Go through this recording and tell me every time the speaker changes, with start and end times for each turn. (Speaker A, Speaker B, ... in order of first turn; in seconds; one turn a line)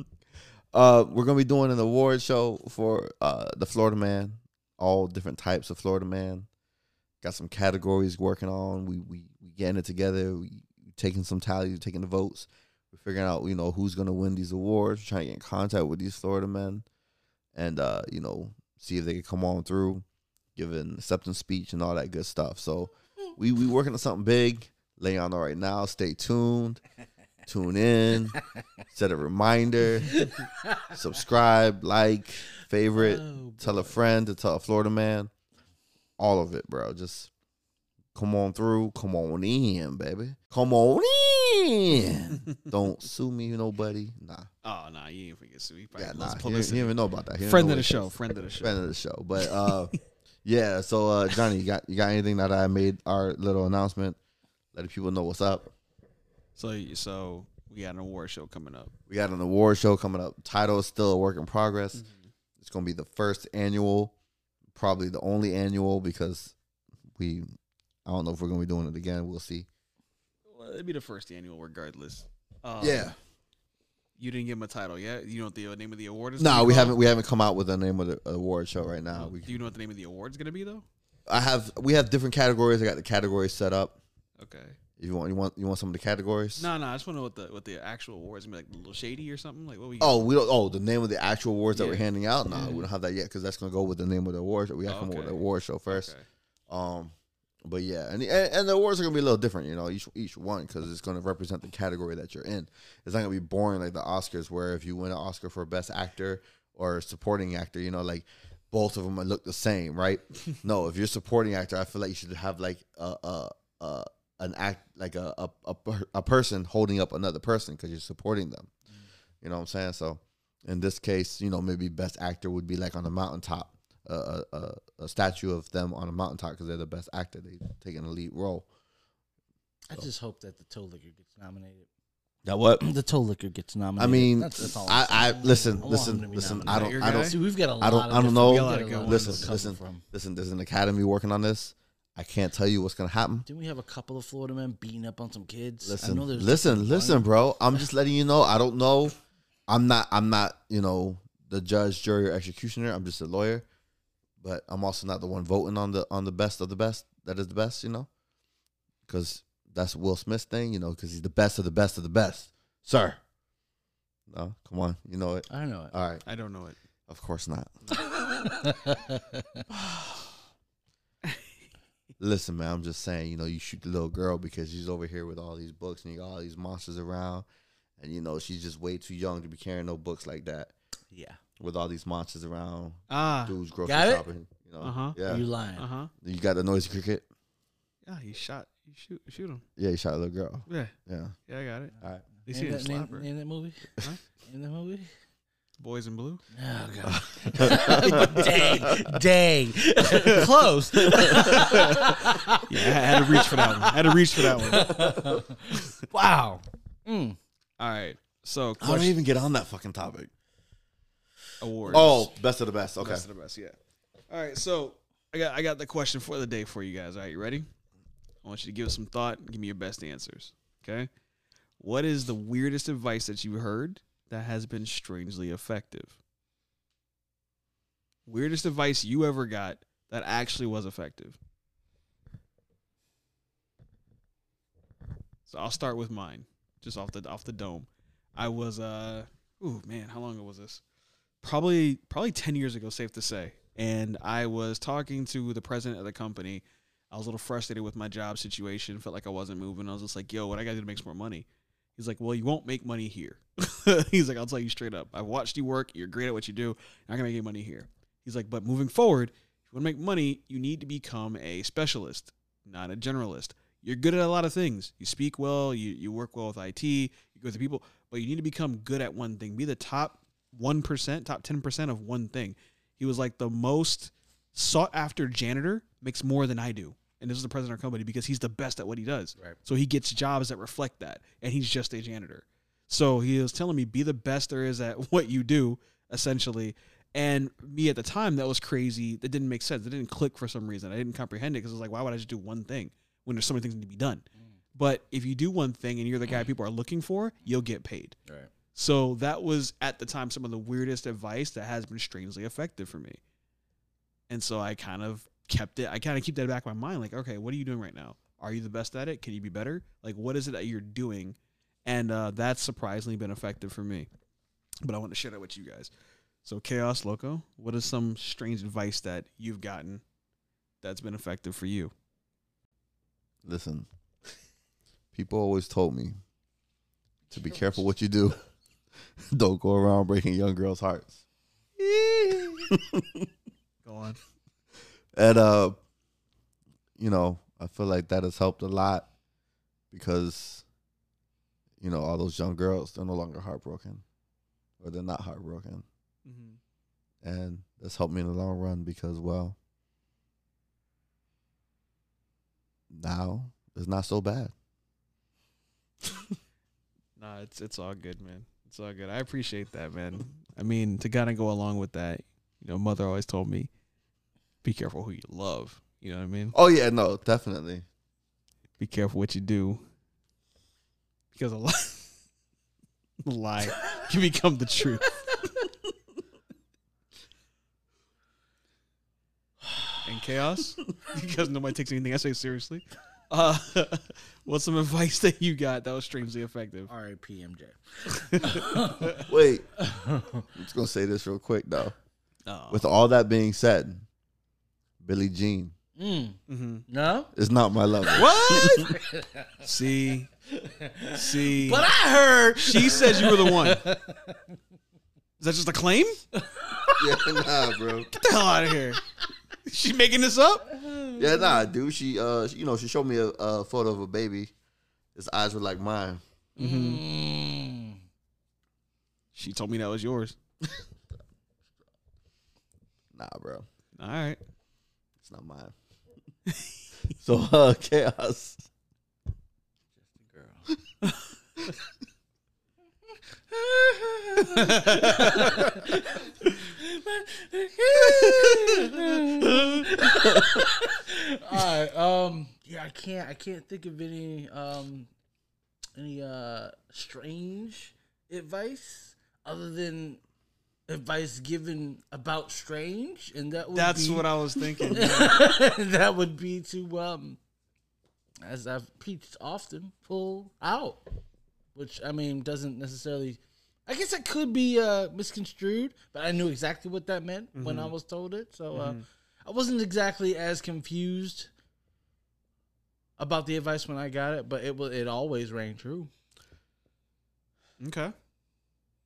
Speaker A: 0.7-6.5
Speaker A: 7.2-16.9
Speaker A: 17.6-20.1
Speaker A: 20.6-26.8
Speaker A: 27.5-28.4
Speaker A: 28.9-30.3
Speaker B: 30.2-30.9
Speaker A: 30.9-35.3
Speaker B: 33.0-34.0
Speaker A: 36.2-37.3
Speaker A: 38.1-44.5
Speaker C: 44.6-48.8
Speaker A: 46.0-49.9
Speaker C: 49.4-49.8
Speaker A: 50.5-54.2
Speaker A: 54.7-55.7
Speaker C: 56.6-58.9
Speaker A: 59.1-62.0
Speaker C: 61.9-62.3
Speaker A: 62.6-64.1
Speaker A: 64.8-66.5
Speaker A: 67.2-67.5
Speaker A: 68.1-69.7
Speaker C: 70.5-73.1
Speaker A: 72.8-73.2
Speaker C: 74.2-77.0
Speaker A: 76.4-79.7
Speaker C: 79.1-80.8
Speaker A: 81.3-84.0
Speaker C: 84.4-84.8
Speaker A: 85.0-86.7
Speaker C: 86.6-90.3
Speaker A: 90.0-96.1
Speaker C: 91.7-92.1
Speaker B: 92.5-92.8
Speaker C: 94.9-96.2
Speaker A: 96.7-97.1
Speaker A: 97.6-118.7
Speaker A: 119.4-128.7
Speaker B: 129.9-131.9
Speaker A: 132.4-132.8
Speaker B: 132.8-140.0
Speaker A: 134.0-143.5
Speaker C: 136.4-137.4
Speaker C: 138.2-139.5
Speaker B: 143.5-147.8
Speaker A: 145.8-149.2
Speaker A: 149.7-153.7
Speaker A: 154.4-158.1
Speaker A: 159.1-163.2
Speaker A: 164.3-166.2
Speaker B: 165.5-165.9
Speaker C: 166.3-166.8
Speaker A: 167.1-167.7
Speaker B: 168.0-169.6
Speaker A: 172.2-177.5
Speaker A: 178.0-180.7
Speaker B: 181.1-181.4
Speaker A: 181.6-185.5
Speaker C: 183.1-183.6
Speaker B: 183.8-184.2
Speaker C: 184.8-185.2
Speaker B: 185.2-185.9
Speaker C: 185.8-186.1
Speaker A: 186.2-187.3
Speaker C: 188.1-189.6
Speaker A: 189.8-191.3
Speaker C: 190.7-190.9
Speaker C: 191.5-191.9
Speaker B: 192.4-193.9
Speaker C: 192.5-193.3
Speaker B: 194.5-195.1
Speaker C: 195.8-196.4
Speaker B: 196.6-207.4
Speaker A: 197.0-199.2
Speaker C: 197.8-198.8
Speaker C: 200.1-200.5
Speaker A: 200.9-201.8
Speaker C: 201.3-205.1
Speaker A: 204.7-205.4
Speaker C: 207.8-209.2
Speaker A: 208.8-210.3
Speaker C: 211.6-212.3
Speaker A: 211.9-213.3
Speaker C: 213.0-213.8
Speaker C: 214.3-217.7
Speaker C: 218.4-221.1
Speaker C: 221.8-226.2
Speaker C: 228.3-231.4
Speaker C: 235.5-240.8
Speaker C: 241.4-298.2
Speaker C: 298.8-303.2
Speaker C: 304.3-314.1
Speaker C: 314.8-315.9
Speaker C: 316.4-320.0
Speaker C: 320.8-321.9
Speaker A: 323.4-323.9
Speaker A: 325.1-326.2
Speaker A: 327.3-328.4
Speaker A: 329.3-331.2
Speaker A: 331.8-333.3
Speaker C: 333.9-334.2
Speaker A: 335.1-335.8
Speaker A: 337.0-339.1
Speaker A: 339.9-340.6
Speaker A: 341.8-344.0
Speaker A: 344.8-345.9
Speaker C: 346.2-346.6
Speaker A: 347.2-349.6
Speaker A: 352.9-354.5
Speaker A: 356.1-356.3
Speaker C: 357.2-363.7
Speaker C: 364.6-366.6
Speaker A: 366.5-367.9
Speaker C: 368.8-369.8
Speaker C: 371.3-372.1
Speaker C: 373.2-375.4
Speaker C: 380.0-386.9
Speaker B: 386.9-390.5
Speaker C: 388.1-389.2
Speaker A: 389.2-389.7
Speaker A: 390.6-391.9
Speaker C: 392.5-392.9
Speaker A: 392.7-394.0
Speaker A: 395.0-395.7
Speaker B: 396.0-397.3
Speaker C: 396.5-396.9
Speaker A: 397.4-398.9
Speaker C: 398.1-398.9
Speaker B: 398.5-399.7
Speaker C: 399.6-400.3
Speaker B: 400.6-404.6
Speaker C: 401.1-401.9
Speaker C: 402.6-403.8
Speaker C: 405.4-406.2
Speaker B: 406.3-407.2
Speaker A: 407.0-408.1
Speaker C: 408.1-409.0
Speaker C: 409.7-410.7
Speaker B: 410.7-411.6
Speaker A: 411.1-414.5
Speaker A: 415.1-416.2
Speaker C: 416.6-417.0
Speaker B: 416.6-418.0
Speaker C: 419.4-420.4
Speaker A: 423.1-423.7
Speaker C: 424.0-424.4
Speaker A: 425.2-425.7
Speaker A: 427.2-428.6
Speaker B: 430.0-430.7
Speaker B: 433.5-445.1
Speaker C: 434.4-435.9
Speaker C: 438.4-439.0
Speaker B: 446.0-450.2
Speaker B: 450.9-457.4
Speaker C: 453.7-455.4
Speaker B: 458.4-461.0
Speaker B: 461.8-471.5
Speaker C: 467.6-467.9
Speaker C: 468.7-469.0
Speaker B: 473.2-476.1
Speaker C: 477.8-478.1